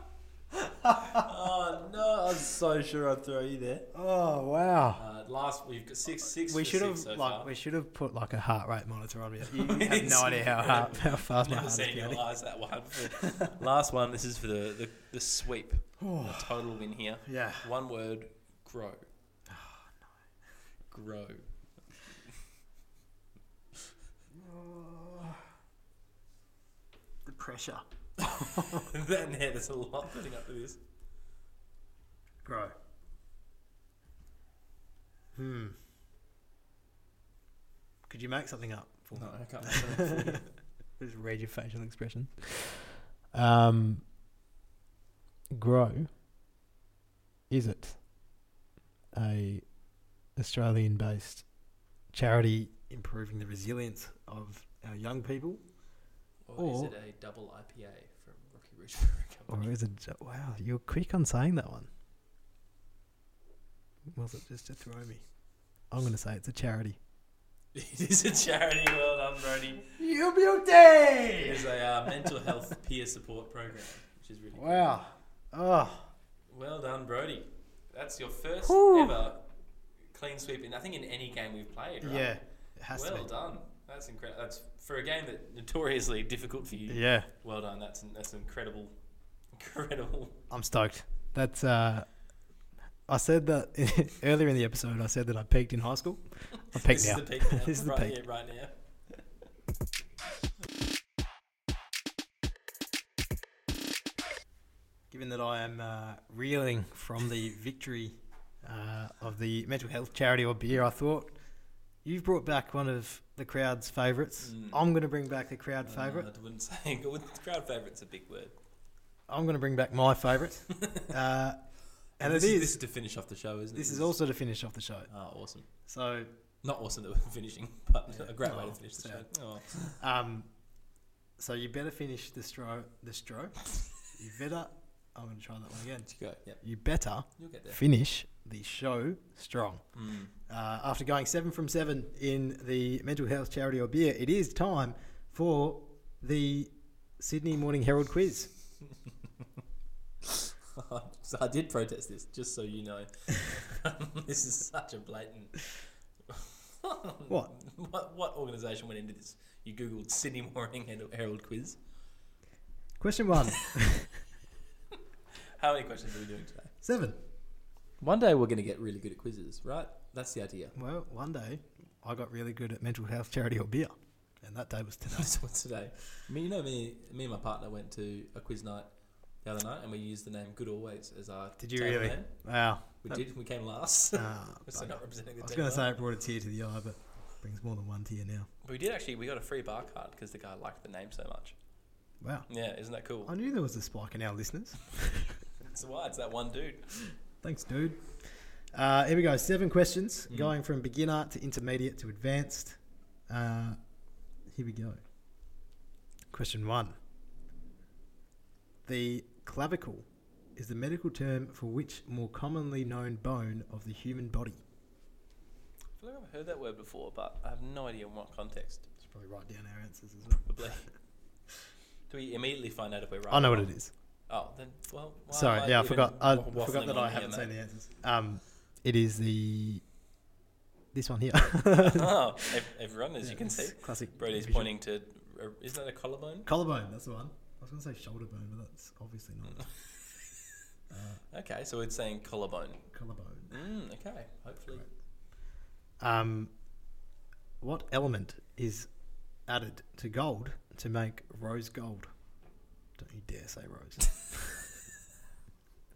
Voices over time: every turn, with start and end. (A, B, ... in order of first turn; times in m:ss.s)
0:00.6-0:01.2 A
0:00.9-0:03.9 B
0:03.9-0:05.0 A
0:05.0-0:07.5 B
0:06.3-0:12.3 A
0:09.5-0:19.1 B
0:16.0-0:16.6 A
0:17.2-0:17.7 A
0:19.5-0:19.9 A
0:20.9-0:21.6 B
0:24.3-0:25.4 A
0:27.2-0:28.9 A
0:28.3-0:30.8 B
0:32.4-0:32.7 A
0:35.3-0:35.8 A
0:38.1-0:44.0 A
0:39.1-0:40.5 B
0:45.5-0:46.1 A
0:47.5-0:48.0 A
0:49.1-0:49.6 A
0:50.4-0:51.5 A
0:52.1-0:55.6 A
0:56.4-0:59.7 B
0:56.6-0:56.9 A
0:59.5-1:01.9 A
1:04.1-1:05.2 A
1:05.9-1:07.0 A
1:07.7-1:09.9 B
1:10.0-1:11.7 A
1:11.4-1:14.9 B
1:14.5-1:16.1 A
1:16.5-1:19.5 B
1:18.7-1:19.2 A
1:20.1-1:22.3 B
1:22.0-1:23.3 A
1:22.9-1:29.0 B
1:26.9-1:27.3 A
1:29.5-1:30.4 B
1:30.5-1:32.2 A
1:33.1-1:38.2 A
1:36.7-1:38.7 B
1:45.1-1:51.4 A
1:52.0-1:56.3 A
1:54.4-1:54.8 B
1:55.8-1:58.5 B
1:59.3-2:02.8 A
2:00.8-2:01.1 B
2:02.2-2:04.2 B
2:03.7-2:05.1 A
2:05.1-2:05.7 B
2:05.8-2:06.3 A
2:06.6-2:10.0 B
2:08.1-2:09.3 A
2:09.8-2:10.5 A
2:11.4-2:19.8 A
2:16.1-2:16.6 B
2:17.4-2:17.8 B
2:19.9-2:20.3 B
2:20.5-2:28.5 A
2:30.3-2:35.7 B
2:36.3-2:41.8 B
2:43.0-2:44.1 A
2:45.6-2:46.7 B
2:46.8-2:47.2 A
2:48.0-2:50.8 B
2:50.7-2:55.3 A
2:55.1-3:02.3 B
3:01.6-3:03.2 A
3:03.0-3:05.9 B
3:04.1-3:08.5 A
3:08.6-3:11.5 B
3:12.2-3:12.5 A
3:12.5-3:13.3 B
3:13.2-3:15.4 A
3:15.6-3:16.9 B
3:17.4-3:23.8 A
3:24.5-3:25.0 A
3:26.3-3:26.9 A
3:28.8-3:34.6 A
3:36.0-3:38.8 B
3:39.0-3:40.5 A
3:40.3-3:40.9 B
3:42.1-3:43.7 B
3:43.3-3:43.9 A
3:44.3-3:47.5 B
3:45.3-3:49.8 A
3:50.9-3:52.6 A
3:51.7-3:56.5 B
3:53.2-3:54.7 A
3:56.4-3:59.7 A
3:59.5-4:00.2 B
4:00.9-4:01.2 A
4:01.3-4:02.8 B
4:02.9-4:03.5 A
4:03.5-4:04.8 B
4:06.0-4:06.5 A
4:07.6-4:08.9 A
4:09.4-4:12.1 A
4:13.0-4:14.6 A